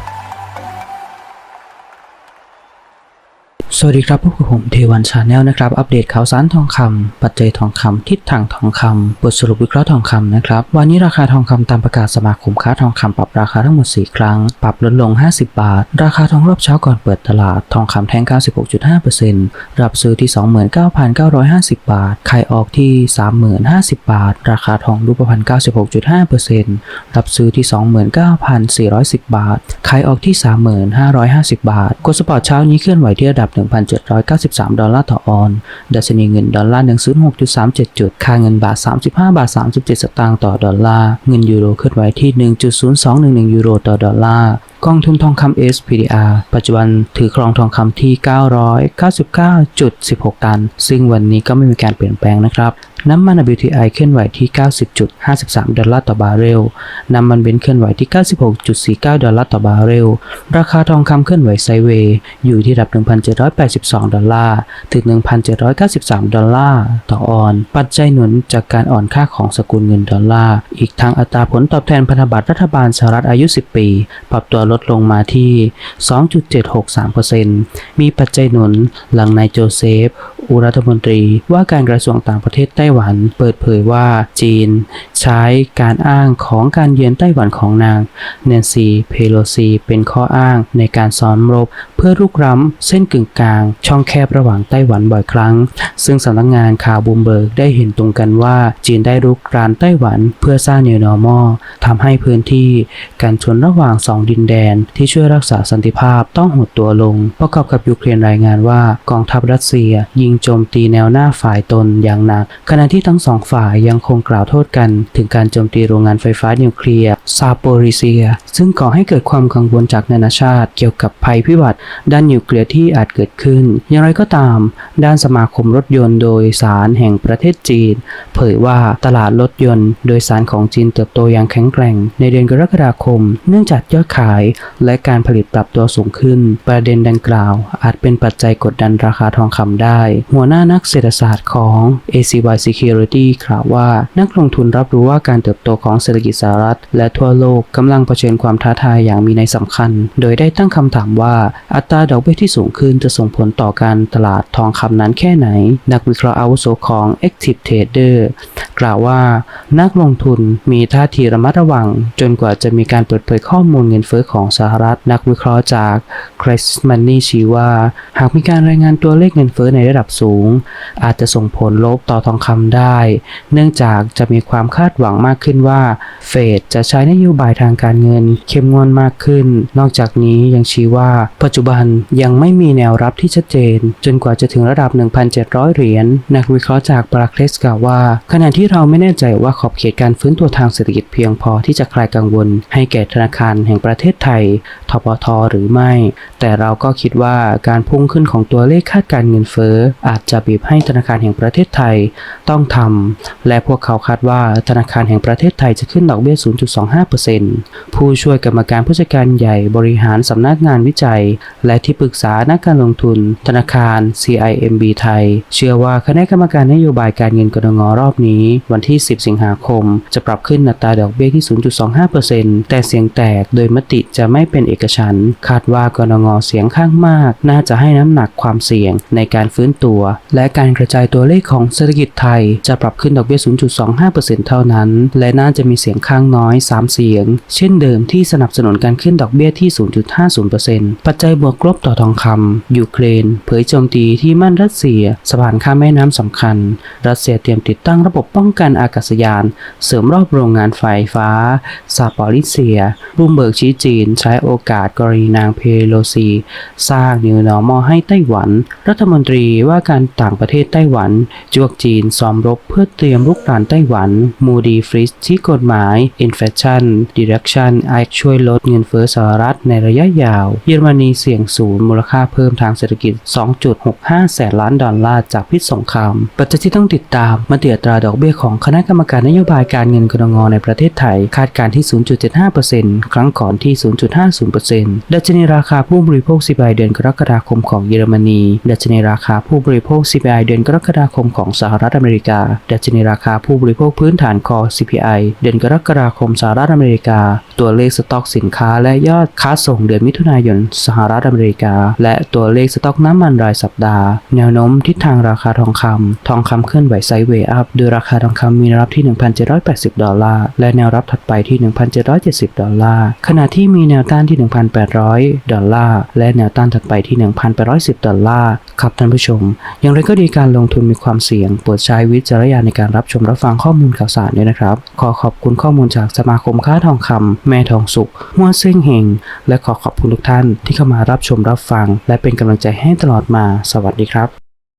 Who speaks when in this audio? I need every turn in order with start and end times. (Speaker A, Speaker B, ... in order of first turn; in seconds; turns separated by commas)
Speaker A: 3.7-334.3